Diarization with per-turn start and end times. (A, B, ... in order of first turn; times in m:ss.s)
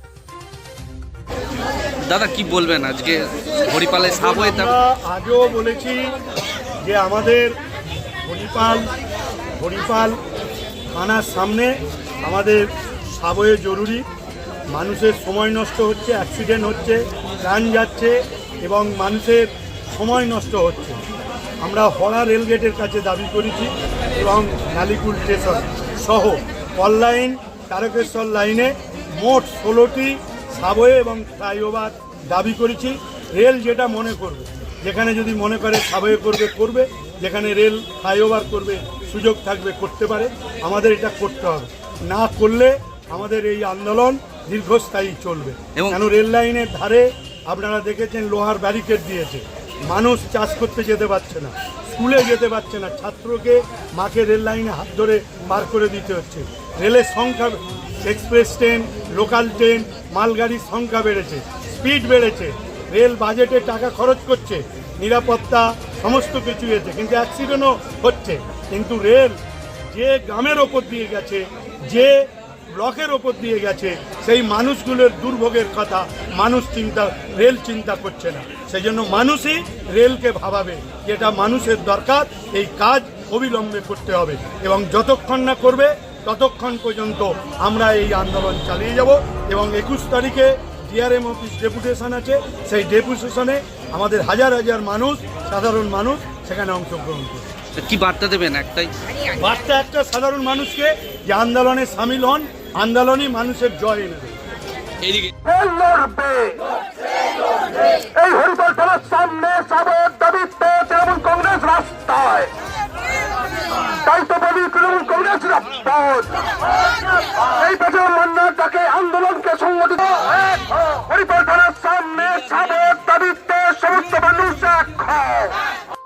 0:02.1-0:04.7 A
0:04.1-0:06.1 B
0:06.8-0:07.5 B
0:08.2-0:08.9 B
0:09.6-0:10.2 B
0:10.9-0:11.7 B
0:12.2-0:14.0 B
0:14.7-0:21.0 B
0:21.6-1:37.4 B
1:37.8-1:38.9 A
1:39.4-1:44.3 B
1:45.1-1:45.3 A
1:45.4-1:46.7 C
1:47.8-1:52.5 C
1:53.8-1:56.5 C
1:57.0-2:05.6 C